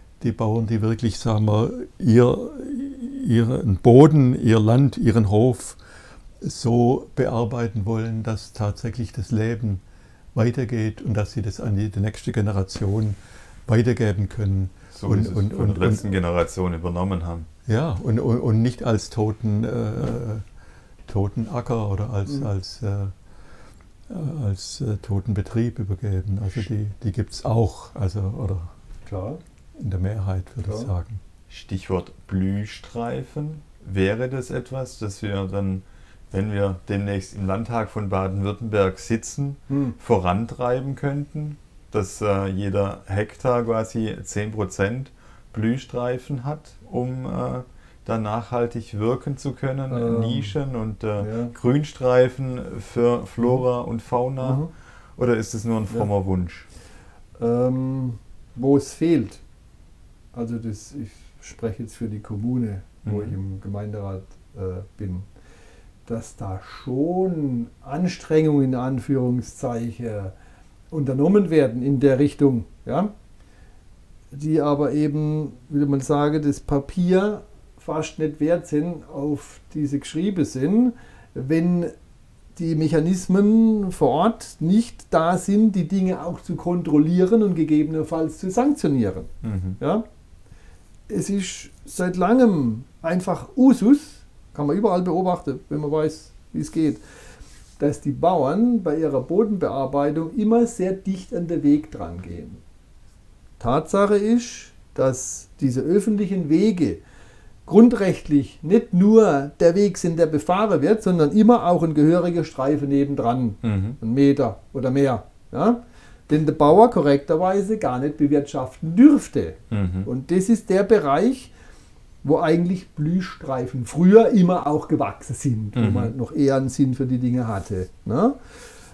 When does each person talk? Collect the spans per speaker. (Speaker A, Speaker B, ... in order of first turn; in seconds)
Speaker A: 0.2-5.8, 6.4-9.8, 10.3-16.1, 17.6-20.4, 21.1-23.1, 24.1-28.7, 29.8-31.2
Speaker B: 14.9-17.5, 31.5-54.6, 55.2-56.7, 63.0-63.3, 89.4-89.8, 113.6-114.0, 119.7-120.1, 125.8-126.1
Speaker C: 29.1-29.4, 39.7-40.0, 49.9-50.5, 51.2-51.5, 54.4-54.7, 57.4-59.4, 60.3-65.2, 66.1-70.3, 70.9-73.1, 74.3-81.9, 82.5-90.0, 91.1-97.0, 97.8-102.6, 103.6-107.0, 107.7-121.5, 122.2-128.4